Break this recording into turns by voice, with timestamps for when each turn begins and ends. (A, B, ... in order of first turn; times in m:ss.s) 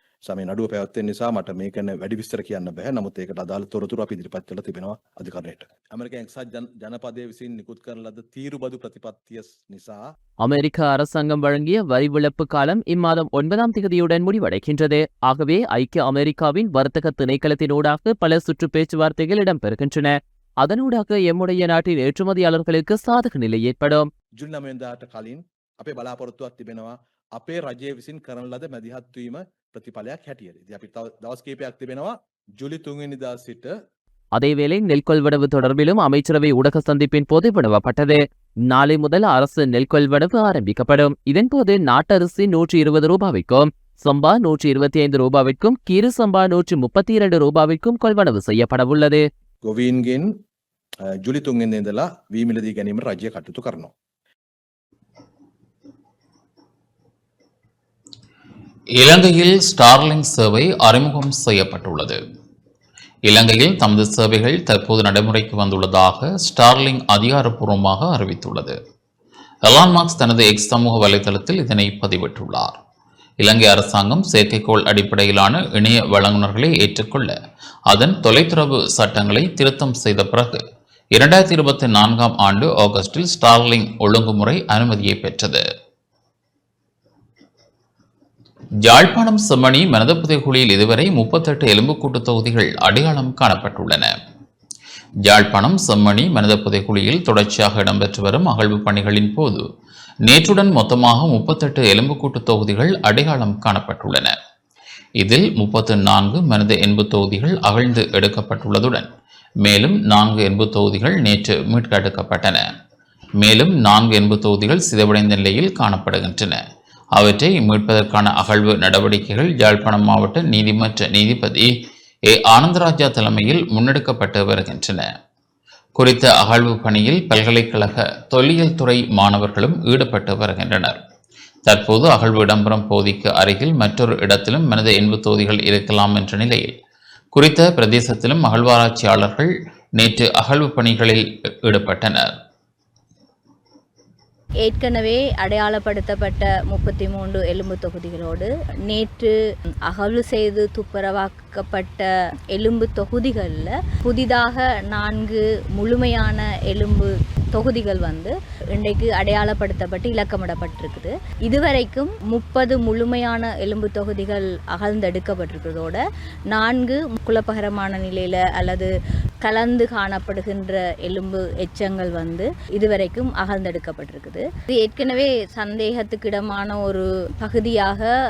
0:00.2-0:10.0 A
0:10.4-0:24.1 B
0:24.4-0:33.8 A
0:34.4-0:49.3 B
0:49.6-0:50.3 A
0:51.1-0:53.9 A
0:59.0-1:02.2 C
1:03.3-1:08.8 C
1:09.6-1:12.8 C
1:13.4-1:17.4 C
1:17.9-1:20.6 C
1:21.2-1:25.6 C
1:28.8-1:34.1 C
1:35.2-1:39.6 C
1:40.2-1:44.4 C
1:45.2-1:49.1 C
1:49.6-1:52.7 C
1:53.4-1:56.6 C
1:57.2-2:01.7 C
2:02.3-2:05.1 C
2:06.0-2:11.0 C
2:11.7-2:16.7 C
2:17.3-2:22.4 C
2:24.6-2:29.3 D
2:29.9-2:46.0 D
2:46.5-2:48.9 D
2:49.4-2:58.1 D